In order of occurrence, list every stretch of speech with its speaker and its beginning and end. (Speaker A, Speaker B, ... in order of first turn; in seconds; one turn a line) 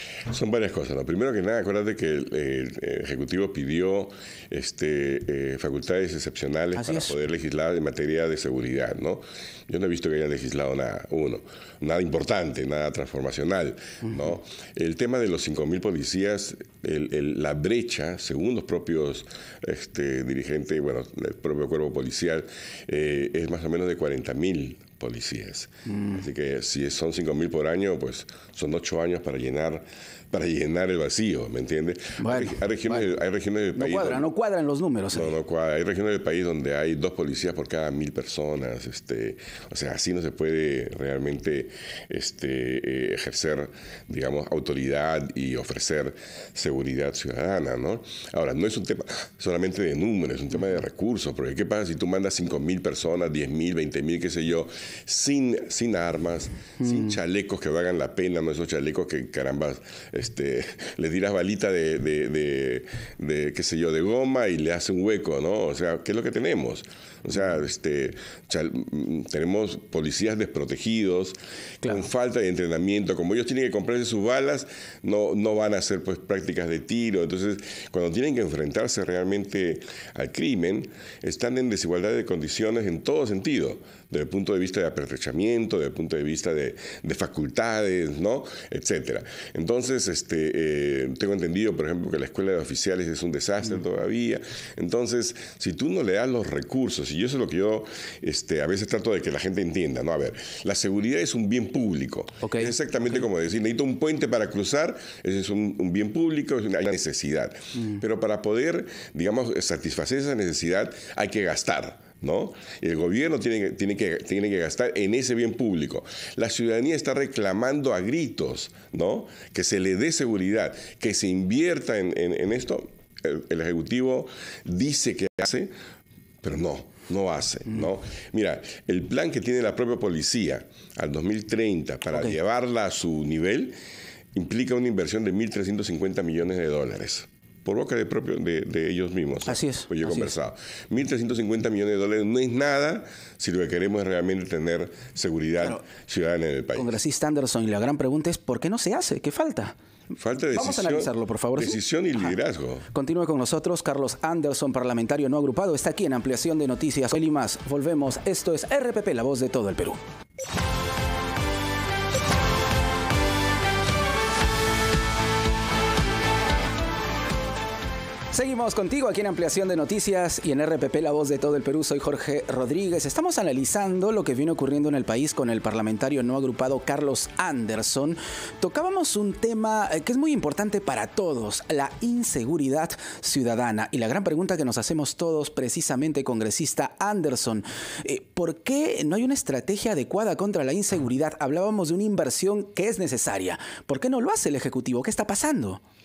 Speaker A: 0.3-34.3
Speaker B: 6.8-7.1
Speaker B: 32.2-32.6
Speaker B: 33.8-35.3
Speaker A: 35.1-125.7
Speaker B: 102.4-102.7
Speaker A: 126.4-133.8
Speaker A: 134.3-146.9
Speaker B: 139.5-140.3
Speaker B: 146.8-149.8
Speaker A: 150.2-152.9
Speaker B: 150.5-151.8
Speaker B: 152.9-160.0
Speaker B: 168.3-195.8